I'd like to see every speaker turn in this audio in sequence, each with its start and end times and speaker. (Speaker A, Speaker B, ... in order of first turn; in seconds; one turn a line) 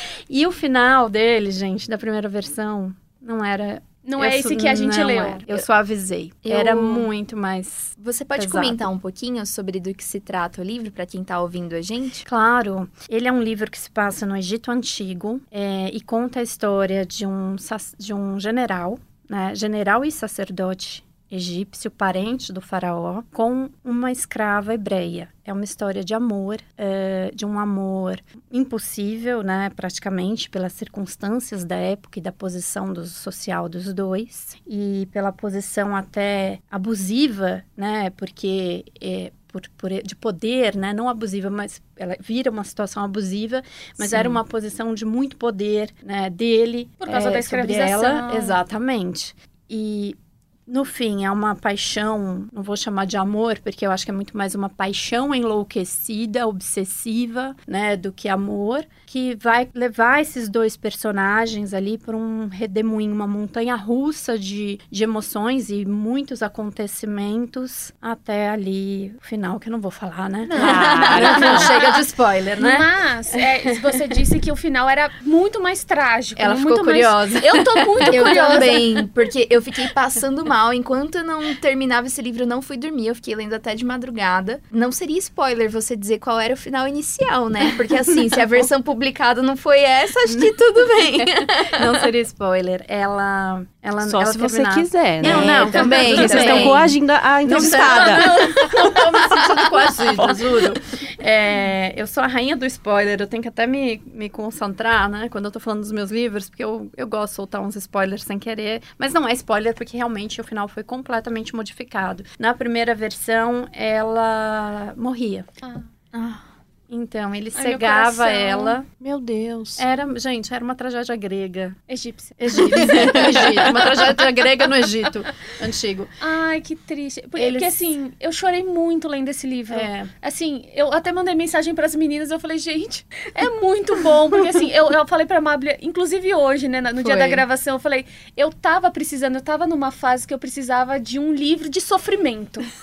Speaker A: 0.3-8.9
Speaker B: 4.0-5.4
Speaker C: 6.4-7.1
Speaker C: 8.0-12.2
Speaker A: 12.2-73.4
Speaker C: 44.0-44.3
Speaker B: 47.0-48.6
Speaker D: 70.5-71.7
Speaker C: 70.5-71.8
Speaker B: 70.9-71.7
Speaker B: 72.6-78.8
Speaker A: 76.4-79.0
Speaker C: 78.1-92.0
Speaker A: 90.3-90.6
Speaker A: 91.1-96.9
Speaker D: 94.0-98.3
Speaker C: 95.2-100.4
Speaker A: 97.5-115.5
Speaker C: 116.1-116.4
Speaker A: 116.9-118.9
Speaker B: 117.5-118.8
Speaker D: 118.9-119.8
Speaker A: 119.8-121.8
Speaker B: 121.9-123.9
Speaker A: 122.4-126.1
Speaker B: 126.2-142.7
Speaker A: 127.4-127.9
Speaker A: 129.7-130.1
Speaker A: 137.0-137.4